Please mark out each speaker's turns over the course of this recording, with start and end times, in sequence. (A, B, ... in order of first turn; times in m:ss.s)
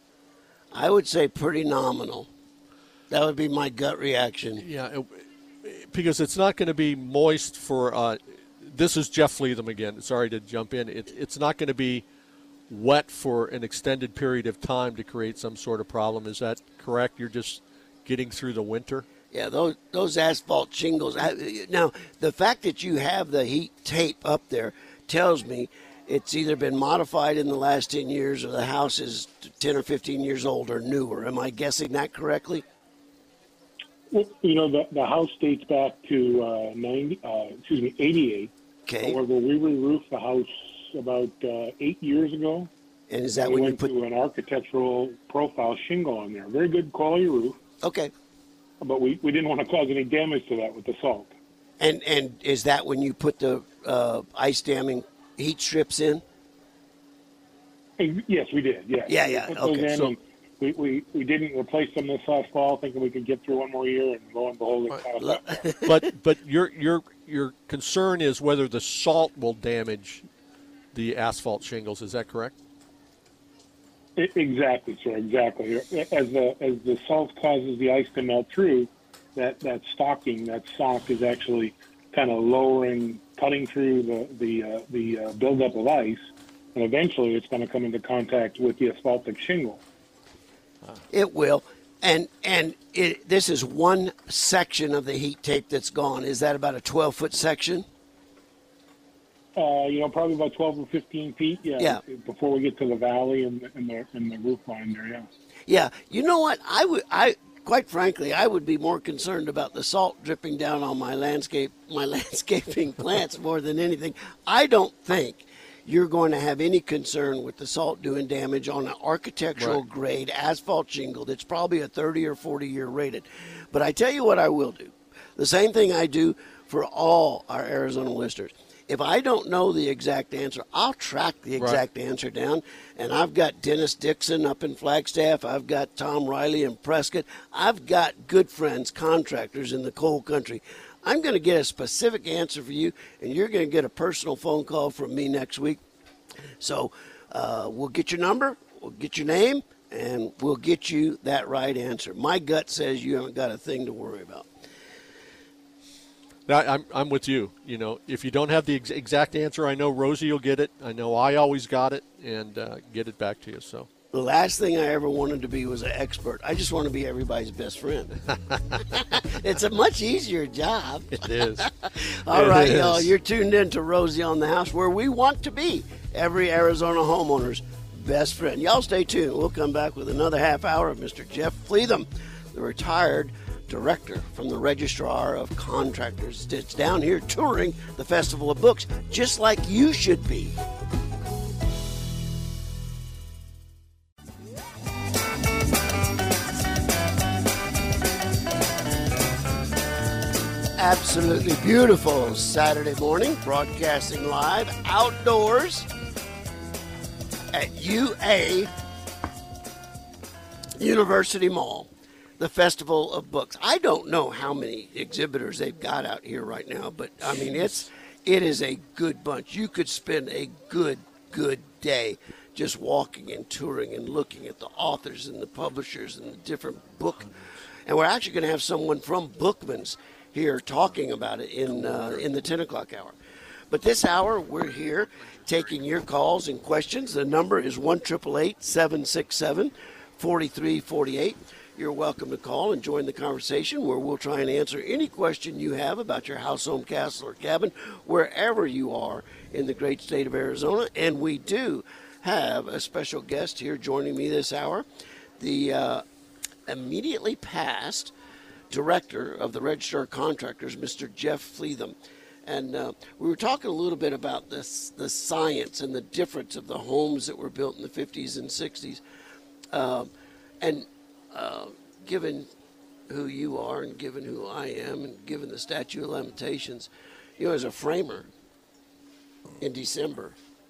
0:00.7-0:02.3 A
0:03.1-0:04.6 A
0:04.6-0:12.0 B
0:12.7-0:19.1 B
0:19.3-0:32.6 A
0:34.1-0:38.5 C
0:38.8-0:39.2 A
0:39.0-0:42.7 C
0:43.1-0:43.9 A
0:43.4-0:47.6 C
0:47.8-0:48.1 A
0:48.8-0:51.3 C
0:51.8-0:56.2 A
0:58.0-1:05.5 C
0:59.1-1:00.1 A
1:05.2-1:06.1 A
1:05.8-1:10.2 B
1:10.9-1:12.5 B
1:14.2-1:26.2 C
1:26.7-1:29.8 C
1:31.1-1:37.8 A
1:39.5-1:45.3 C
1:45.7-2:25.8 A
2:11.6-2:11.8 B
2:26.6-2:34.5 A
2:36.4-2:43.9 B
2:44.1-3:10.6 A
2:51.1-2:53.1 B
3:20.8-3:25.9 A
3:27.5-3:28.7 A
3:30.7-3:53.1 A
3:51.7-3:52.2 B
3:53.7-4:14.8 A
4:15.4-4:16.0 A
4:16.7-4:18.1 A
4:18.7-4:21.9 A
4:22.4-4:29.0 A
4:29.7-4:32.5 A
4:33.1-4:38.3 A
4:39.6-4:40.4 A